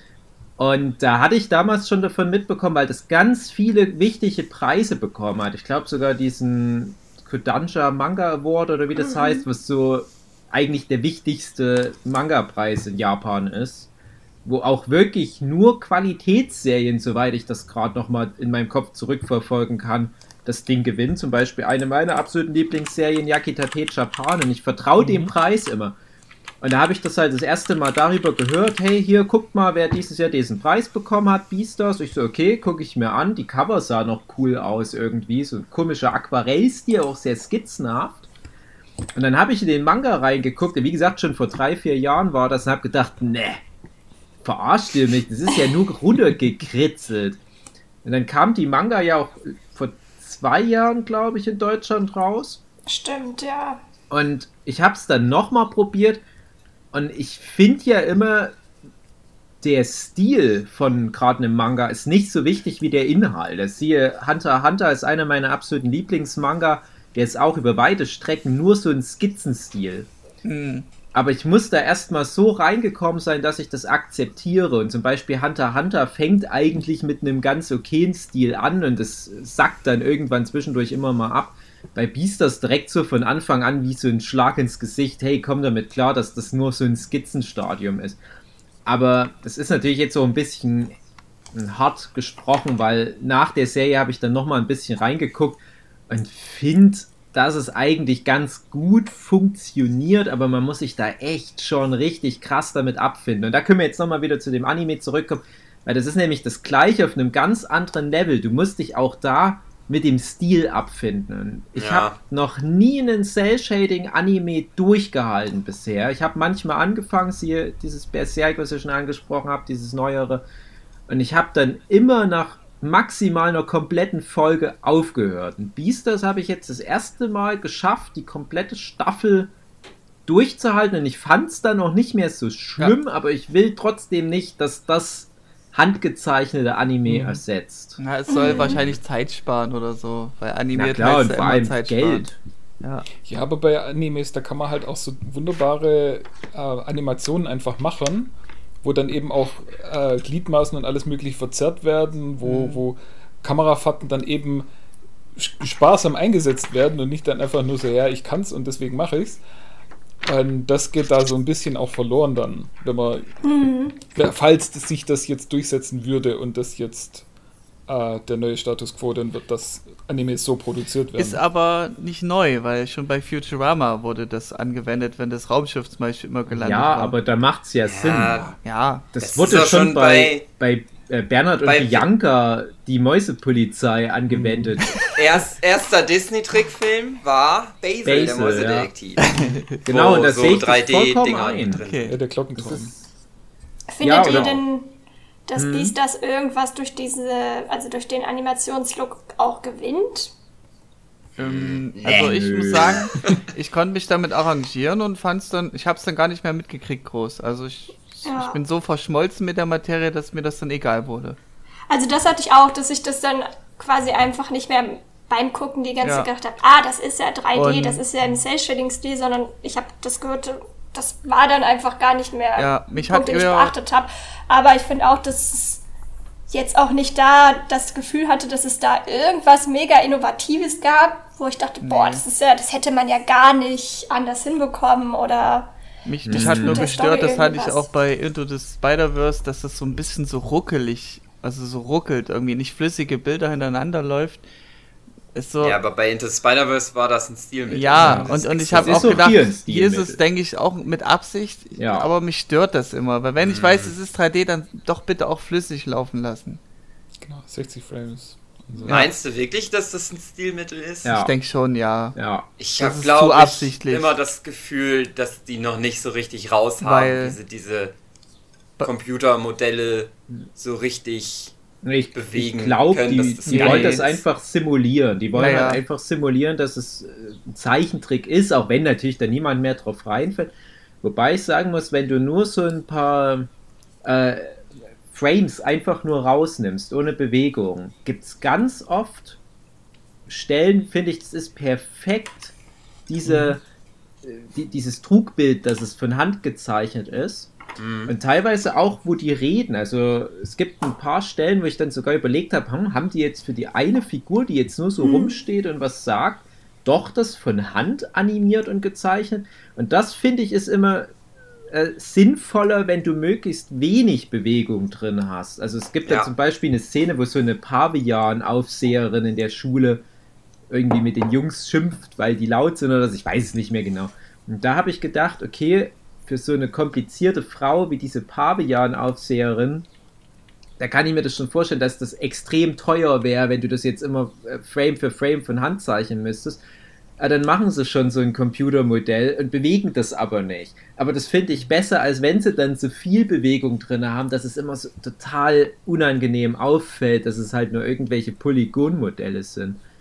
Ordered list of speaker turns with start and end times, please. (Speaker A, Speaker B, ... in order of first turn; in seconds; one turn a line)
Speaker A: 0.6-13.9
Speaker B: 9.0-9.4
Speaker A: 14.4-26.0
Speaker C: 25.0-25.3
Speaker A: 26.6-38.3
Speaker A: 39.1-43.6
Speaker A: 44.4-47.4
Speaker A: 48.0-52.6
Speaker B: 52.9-53.8
Speaker A: 54.1-56.2
Speaker A: 56.9-58.5
Speaker A: 59.6-70.1
Speaker D: 70.4-70.9
Speaker A: 71.1-88.2
Speaker A: 88.9-91.0
Speaker A: 91.5-120.4
Speaker E: 111.8-112.2
Speaker A: 121.1-129.5
Speaker A: 130.3-138.0
Speaker C: 137.1-137.4
Speaker D: 138.0-142.3
Speaker B: 138.3-138.8
Speaker E: 138.6-139.0
Speaker A: 140.7-142.4
Speaker D: 142.8-143.1
Speaker C: 143.2-154.7
Speaker D: 152.4-152.8
Speaker C: 155.4-159.4
Speaker C: 160.2-163.3
Speaker B: 163.4-164.0
Speaker C: 164.1-167.2
Speaker C: 167.9-171.4
Speaker D: 171.1-177.2
Speaker A: 176.5-178.4
Speaker E: 177.8-178.6
Speaker D: 178.6-179.1
Speaker A: 179.1-185.0
Speaker E: 179.2-180.4
Speaker E: 181.6-182.1
Speaker C: 184.3-184.8
Speaker E: 185.1-192.1
Speaker A: 188.1-188.9
Speaker D: 189.2-189.6
Speaker A: 189.8-191.8
Speaker D: 191.8-192.2
Speaker C: 192.1-192.9
Speaker A: 192.6-192.9
Speaker B: 193.9-200.3
Speaker A: 194.0-194.6
Speaker E: 194.2-194.6
Speaker A: 195.6-195.9
Speaker E: 201.4-203.3
Speaker D: 201.4-211.4
Speaker A: 202.1-203.1
Speaker B: 208.2-208.6
Speaker B: 211.9-225.8
Speaker D: 216.0-216.3
Speaker D: 217.6-218.0
Speaker D: 222.6-223.7
Speaker B: 226.5-235.7
Speaker D: 231.8-232.2
Speaker D: 236.1-244.4
Speaker A: 236.3-236.9
Speaker B: 236.3-237.9
Speaker D: 245.3-245.8
Speaker E: 245.6-249.3
Speaker D: 247.7-256.6
Speaker A: 248.8-250.2
Speaker A: 251.8-252.1
Speaker E: 253.4-253.9
Speaker C: 257.2-259.1
Speaker D: 258.8-259.1
Speaker E: 258.9-261.1
Speaker A: 261.0-261.3
Speaker D: 261.1-262.2
Speaker A: 262.2-262.5
Speaker E: 262.6-267.9
Speaker D: 262.8-264.1
Speaker D: 266.8-267.4
Speaker E: 268.8-271.5
Speaker A: 271.8-283.5
Speaker E: 272.1-274.2
Speaker D: 273.5-274.0
Speaker D: 275.3-275.8
Speaker A: 284.0-289.4
Speaker A: 290.3-292.6
Speaker A: 293.1-293.6
Speaker C: 293.2-293.6
Speaker A: 294.2-297.5
Speaker E: 297.8-298.1
Speaker A: 298.1-311.1
Speaker B: 305.0-305.4
Speaker A: 311.7-320.0
Speaker A: 320.7-329.9
Speaker A: 330.8-336.6
Speaker A: 337.2-349.8